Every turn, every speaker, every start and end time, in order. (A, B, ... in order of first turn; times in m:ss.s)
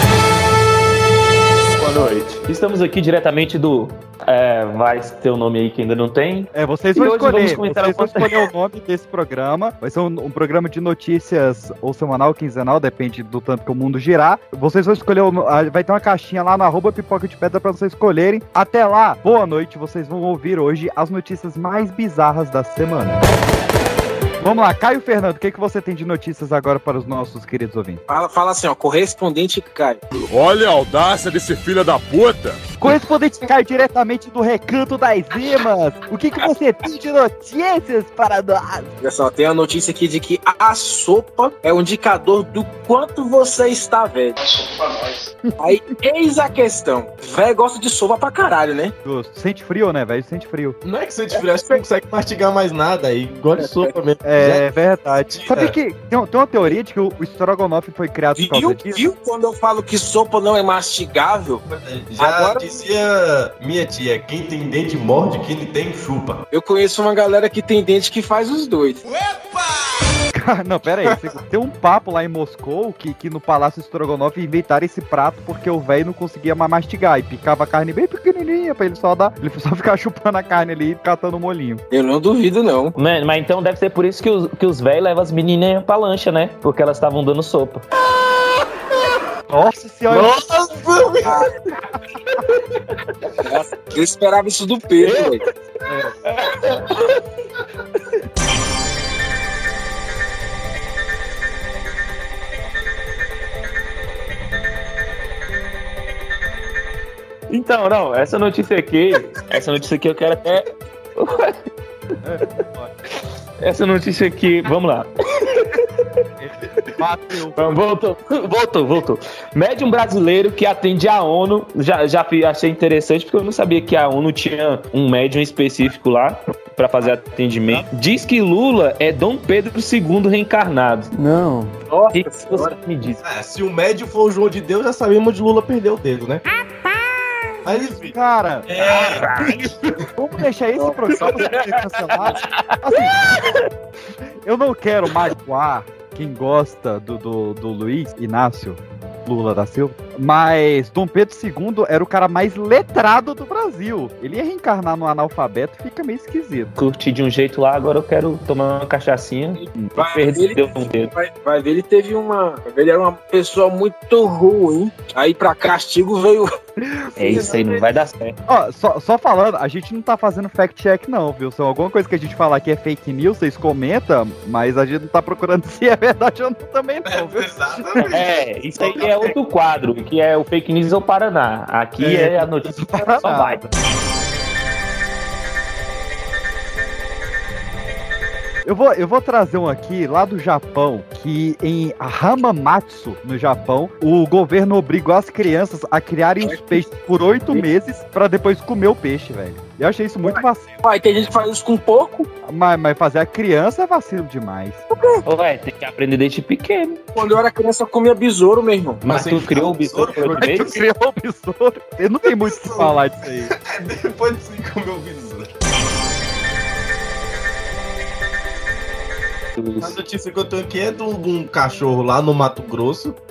0:01.8-0:08.4 A
0:06.5-0:23.2 B
0:24.4-0:28.0 B
0:28.1-0:30.0 C
0:30.2-0:32.6 D
0:32.8-0:38.9 B
0:39.0-0:44.6 C
0:45.6-0:48.9 C
0:49.0-0:50.8 B
0:50.8-0:54.7 E
0:51.3-0:51.8 C
0:53.6-0:54.0 C
0:54.2-0:59.1 B
0:55.3-0:55.8 E
0:58.4-1:01.6 C
1:01.7-1:06.4 E
1:02.2-1:02.8 C
1:06.5-1:09.0 C
1:10.3-1:21.8 B
1:21.9-1:22.9 C
1:23.0-1:27.8 A
1:29.5-1:30.4 B
1:30.1-1:31.4 E
1:31.2-1:31.5 C
1:33.4-1:35.4 C
1:35.0-1:35.4 A
1:35.9-1:36.1 B
1:36.2-1:37.1 A
1:47.5-1:51.6 A
1:52.2-1:53.0 B
1:53.6-1:55.8 A
1:56.4-1:57.7 B
1:57.6-2:11.1 A
2:11.2-2:11.7 D
2:11.9-2:12.8 C
2:12.1-2:13.2 A
2:13.2-2:16.4 E
2:17.6-2:18.1 E
2:18.1-2:18.7 B
2:18.7-2:19.3 E
2:18.8-2:19.8 A
2:20.2-2:23.2 B
2:20.8-2:21.4 C
2:21.4-2:23.6 A
2:24.4-2:36.7 B
2:36.8-2:41.1 A
2:40.0-2:46.5 C
2:46.8-2:47.6 B
2:47.2-2:48.4 A
2:47.3-2:47.8 C
2:48.5-2:58.2 B
2:57.0-2:59.3 E
2:58.0-3:03.6 A
3:02.0-3:03.8 B
3:08.6-3:20.8 B
3:16.4-3:16.8 C
3:20.2-3:22.3 C
3:22.4-3:24.8 B
3:24.9-3:25.2 C
3:25.2-3:27.0 A
3:27.2-3:29.1 C
3:29.1-3:30.7 E
3:29.1-3:30.7 A
3:30.2-3:33.5 B
3:32.4-3:35.5 E
3:39.6-3:39.9 A
3:39.8-3:43.2 E